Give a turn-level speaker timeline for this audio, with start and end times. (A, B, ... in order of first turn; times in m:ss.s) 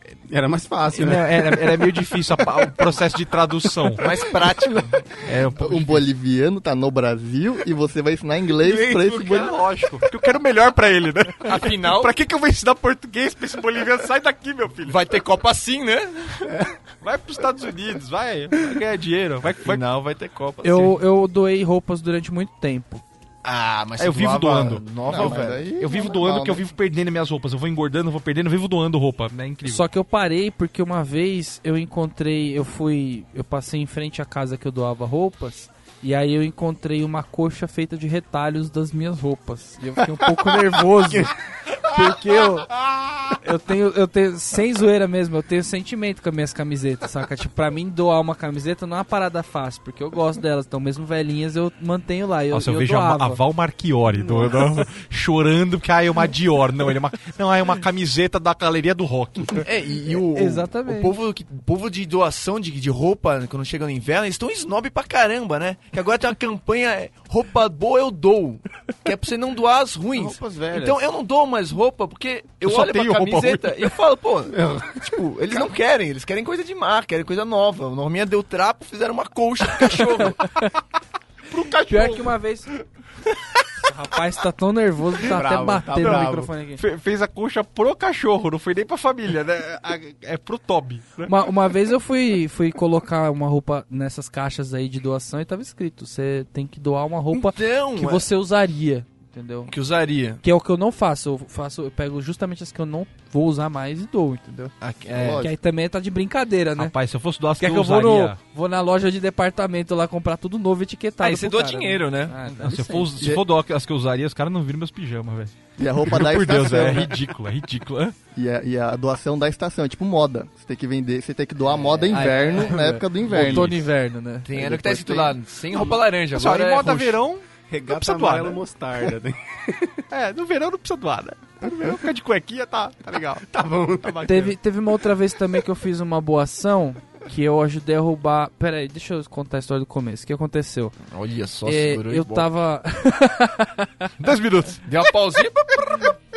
0:00.3-0:01.9 A
0:00.9-0:04.1 B
0:04.0-0:05.1 C
0:05.2-0:06.0 B
0:05.4-0:09.5 D
0:08.6-0:09.4 A
0:09.0-0:15.0 B
0:11.4-0:12.1 C
0:14.8-0:16.6 C
0:17.0-0:19.8 B
0:19.6-0:21.0 C
0:20.6-0:23.0 E
0:23.4-0:25.6 C
0:24.0-0:29.8 B
0:25.0-0:26.6 D
0:29.6-0:42.7 E
0:41.0-0:41.3 A
0:43.4-0:53.4 E
0:52.5-0:59.7 B
0:59.5-1:20.5 C
1:00.3-1:01.1 E
1:10.1-1:11.0 A
1:12.6-1:13.9 B
1:14.5-1:15.2 A
1:20.3-1:20.7 E
1:21.5-1:22.4 B
1:21.9-1:22.7 E
1:23.8-1:26.8 E
1:25.2-1:26.5 A
1:26.0-1:26.2 B
1:26.8-1:31.3 B
1:31.2-1:39.7 E
1:37.3-1:38.3 C
1:39.7-1:40.4 C
1:40.4-1:46.9 E
1:44.8-1:45.5 C
1:45.1-1:45.5 D
1:46.8-1:48.4 B
1:47.6-1:53.1 E
1:51.2-1:52.4 C
1:52.6-1:58.1 B
1:53.2-1:53.4 D
1:55.8-1:57.1 D
1:58.3-2:03.8 D
2:01.8-2:02.1 A
2:02.1-2:04.5 E
2:04.4-2:07.2 C
2:04.6-2:05.3 D
2:04.7-2:05.2 A
2:06.3-2:08.6 B
2:07.7-2:10.0 A
2:10.1-2:13.4 B
2:13.4-2:14.6 A
2:14.0-2:14.3 B
2:14.2-2:21.0 E
2:21.1-2:22.5 C
2:21.6-2:24.1 E
2:24.2-2:24.8 B
2:24.8-2:26.1 C